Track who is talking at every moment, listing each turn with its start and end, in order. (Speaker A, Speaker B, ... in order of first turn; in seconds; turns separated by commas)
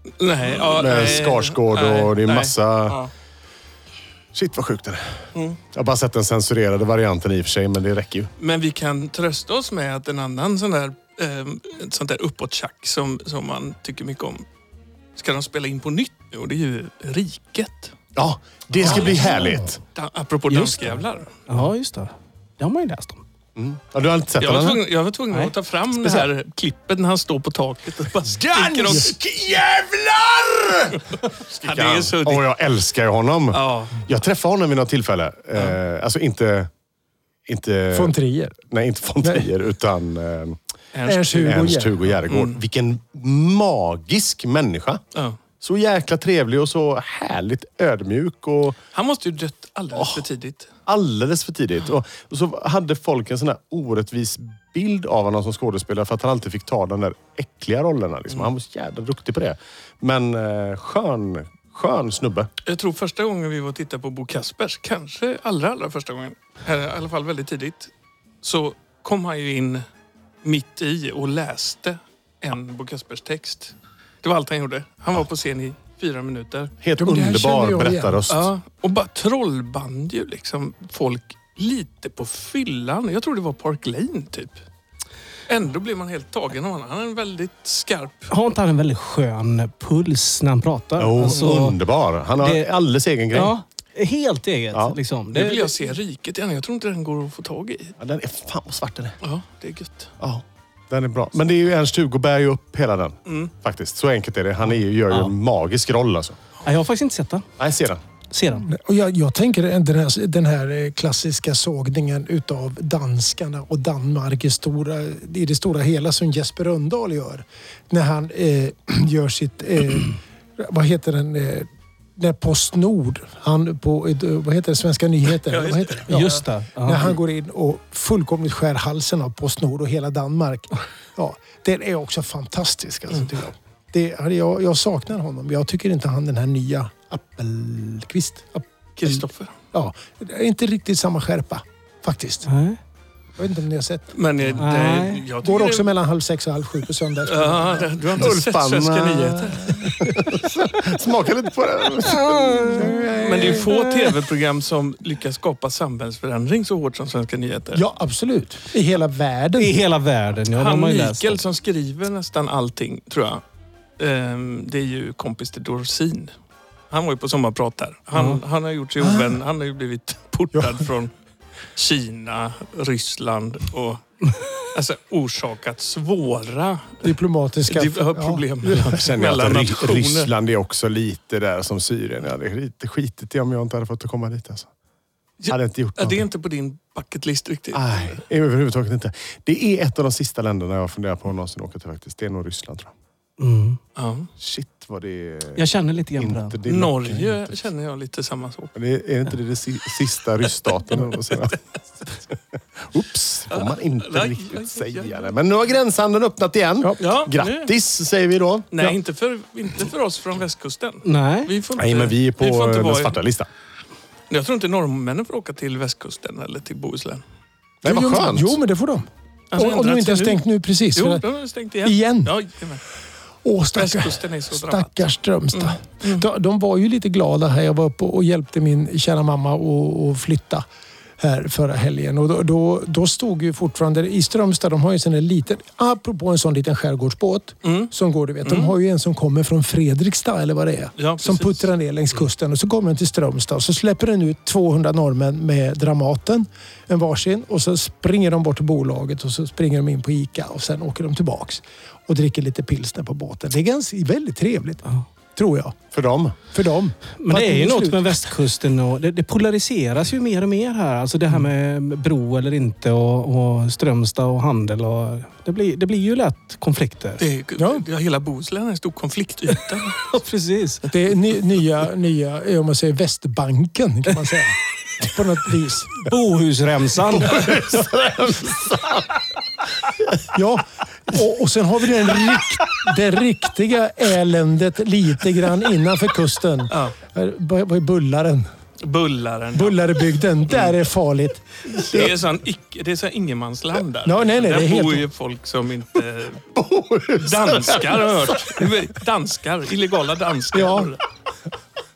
Speaker A: 0.2-3.1, Speaker B: 0.4-3.0, Speaker B: 4.3-8.3, Speaker A: 8.4-14.4, Speaker A: 15.1-17.9, Speaker B: 18.1-19.8, Speaker A: 18.7-21.3, Speaker C: 19.2-19.6, Speaker D: 20.5-23.2, Speaker B: 23.6-24.8, Speaker A: 24.4-29.1, Speaker C: 28.5-29.1, Speaker B: 28.9-31.0, Speaker A: 30.9-32.5, Speaker B: 31.5-36.7, Speaker A: 33.5-34.1, Speaker B: 37.5-40.6, Speaker C: 37.9-38.6, Speaker C: 39.2-39.5, Speaker A: 40.9-42.6, Speaker C: 41.0-42.0, Speaker B: 41.4-45.0, Speaker A: 45.1-45.4, Speaker B: 45.6-48.8, Speaker A: 48.9-50.7, Speaker B: 49.9-50.2, Speaker B: 50.9-62.5, Speaker A: 62.6-69.8, Speaker A: 70.4-76.7, Speaker B: 76.8-78.5, Speaker C: 77.0-78.2, Speaker A: 78.3-84.6, Speaker A: 85.5-88.3, Speaker D: 88.3-91.8, Speaker B: 91.0-93.5, Speaker D: 92.4-92.7, Speaker D: 93.3-95.7, Speaker A: 95.3-98.0, Speaker B: 98.0-99.2, Speaker A: 99.2-100.1, Speaker B: 100.2-106.4, Speaker A: 103.2-103.5, Speaker D: 106.6-107.5, Speaker B: 107.6-108.0, Speaker D: 108.3-108.7, Speaker C: 108.5-142.5, Speaker A: 125.5-126.4, Speaker D: 126.1-127.2, Speaker A: 138.9-139.5, Speaker D: 142.4-142.8, Speaker C: 143.4-144.1, Speaker A: 144.1-145.9, Speaker D: 144.6-145.3, Speaker C: 145.4-148.2, Speaker A: 147.2-149.9, Speaker B: 148.2-152.8, Speaker C: 149.6-150.8, Speaker D: 152.0-154.1, Speaker C: 152.8-153.7, Speaker A: 153.2-157.8, Speaker C: 157.7-159.7, Speaker D: 159.6-161.4, Speaker A: 160.5-163.4, Speaker A: 164.0-166.3, Speaker A: 166.9-171.1, Speaker D: 168.1-168.4, Speaker C: 169.0-169.4, Speaker A: 171.8-177.1, Speaker C: 177.0-178.9, Speaker A: 177.7-180.3, Speaker B: 178.8-184.7, Speaker A: 185.4-188.2, Speaker B: 185.5-186.2, Speaker B: 187.7-192.9, Speaker D: 193.4-193.8, Speaker A: 193.9-194.3, Speaker B: 194.4-195.6, Speaker D: 195.6-196.6, Speaker B: 196.2-197.5, Speaker A: 196.7-198.7, Speaker B: 198.7-201.6, Speaker A: 201.2-201.6, Speaker B: 202.8-208.7, Speaker A: 203.5-205.3, Speaker A: 207.0-207.7, Speaker A: 208.7-213.2, Speaker D: 211.0-211.5, Speaker B: 211.8-213.5, Speaker A: 214.3-217.2, Speaker B: 217.8-218.6, Speaker C: 217.8-221.2, Speaker A: 219.5-220.4, Speaker A: 220.9-222.8, Speaker C: 221.8-222.3, Speaker C: 223.4-230.6, Speaker A: 223.7-226.2, Speaker C: 231.2-255.8, Speaker A: 237.6-237.9, Speaker A: 238.4-238.7, Speaker A: 241.0-241.7, Speaker B: 255.9-256.4, Speaker C: 256.5-258.2, Speaker D: 257.1-267.2, Speaker A: 267.2-270.0, Speaker C: 267.6-267.8, Speaker D: 270.1-270.9, Speaker C: 270.9-276.1, Speaker D: 276.0-277.5, Speaker B: 277.1-279.2, Speaker C: 280.3-288.5, Speaker A: 286.7-286.9, Speaker A: 288.8-289.8, Speaker C: 289.5-292.2, Speaker A: 290.5-290.8, Speaker A: 291.7-296.4, Speaker C: 294.0-295.0, Speaker B: 296.5-298.6, Speaker A: 297.2-301.0, Speaker C: 300.5-300.9